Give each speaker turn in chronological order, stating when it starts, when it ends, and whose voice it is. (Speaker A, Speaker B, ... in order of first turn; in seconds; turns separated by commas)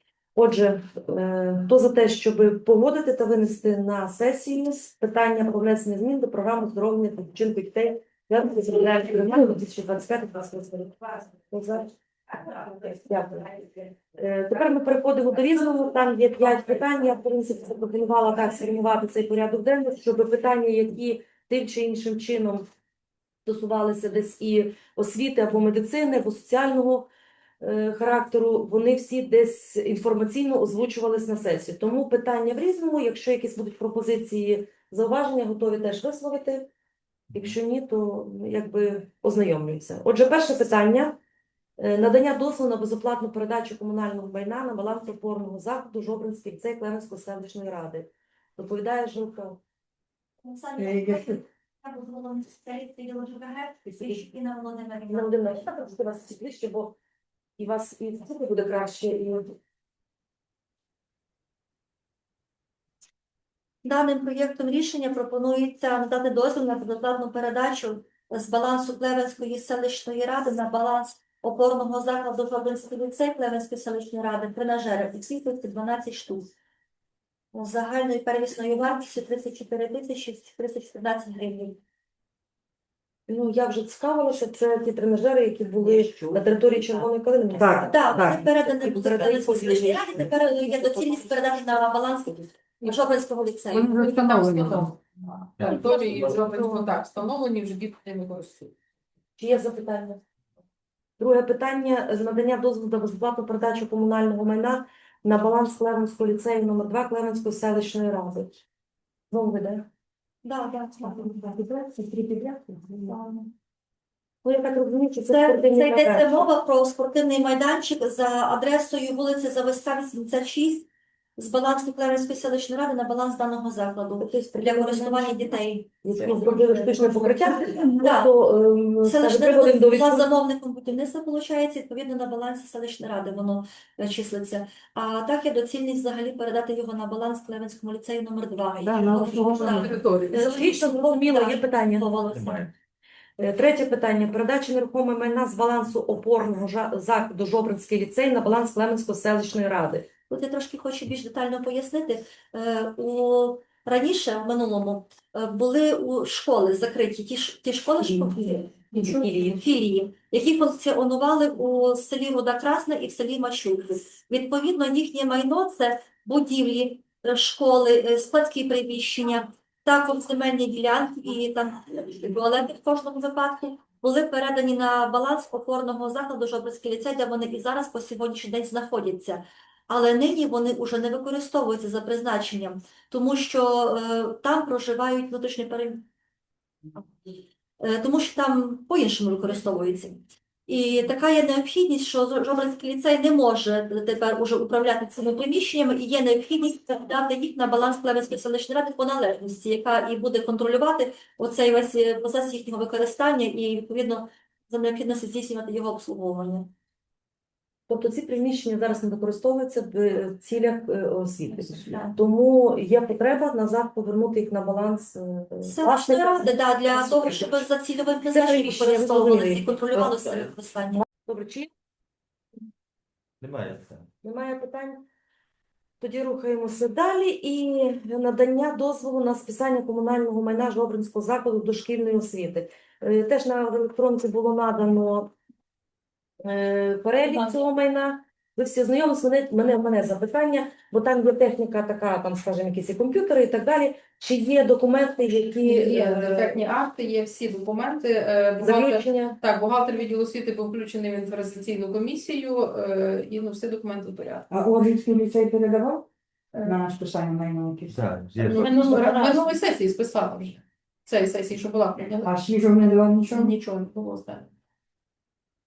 Speaker A: 0.3-22.6, Speaker A: 23.4-36.7, Speaker A: 37.3-41.2, Speaker A: 41.8-49.6, Speaker B: 50.4-55.7, Speaker C: 50.8-51.4, Speaker A: 55.1-57.0, Speaker A: 57.6-59.5, Speaker B: 63.8-76.5, Speaker B: 77.5-81.8, Speaker A: 83.3-91.2, Speaker C: 87.6-88.4, Speaker B: 87.8-94.4, Speaker C: 93.7-94.9, Speaker D: 93.9-98.7, Speaker E: 95.6-96.4, Speaker A: 99.4-100.2, Speaker A: 101.2-108.7, Speaker A: 109.3-109.9, Speaker B: 110.4-111.4, Speaker C: 111.2-113.0, Speaker A: 114.4-116.5, Speaker B: 115.3-126.9, Speaker A: 124.2-130.3, Speaker B: 128.0-128.3, Speaker B: 129.0-142.7, Speaker C: 138.8-140.0, Speaker D: 139.5-140.2, Speaker A: 140.3-142.1, Speaker E: 142.3-142.7, Speaker A: 143.4-150.1, Speaker B: 150.3-186.1, Speaker A: 158.9-159.6, Speaker B: 187.8-206.7, Speaker A: 207.9-217.6, Speaker B: 215.6-221.0, Speaker A: 218.3-219.6, Speaker A: 221.1-221.7, Speaker E: 223.4-224.1, Speaker A: 224.2-225.1, Speaker A: 226.0-235.3, Speaker A: 236.4-246.6, Speaker D: 245.6-254.5, Speaker A: 248.6-249.4, Speaker C: 254.5-256.0, Speaker D: 256.5-256.9, Speaker C: 256.6-258.0, Speaker E: 257.9-258.8, Speaker D: 258.4-262.3, Speaker C: 258.5-259.4, Speaker C: 262.2-263.5, Speaker D: 263.3-264.5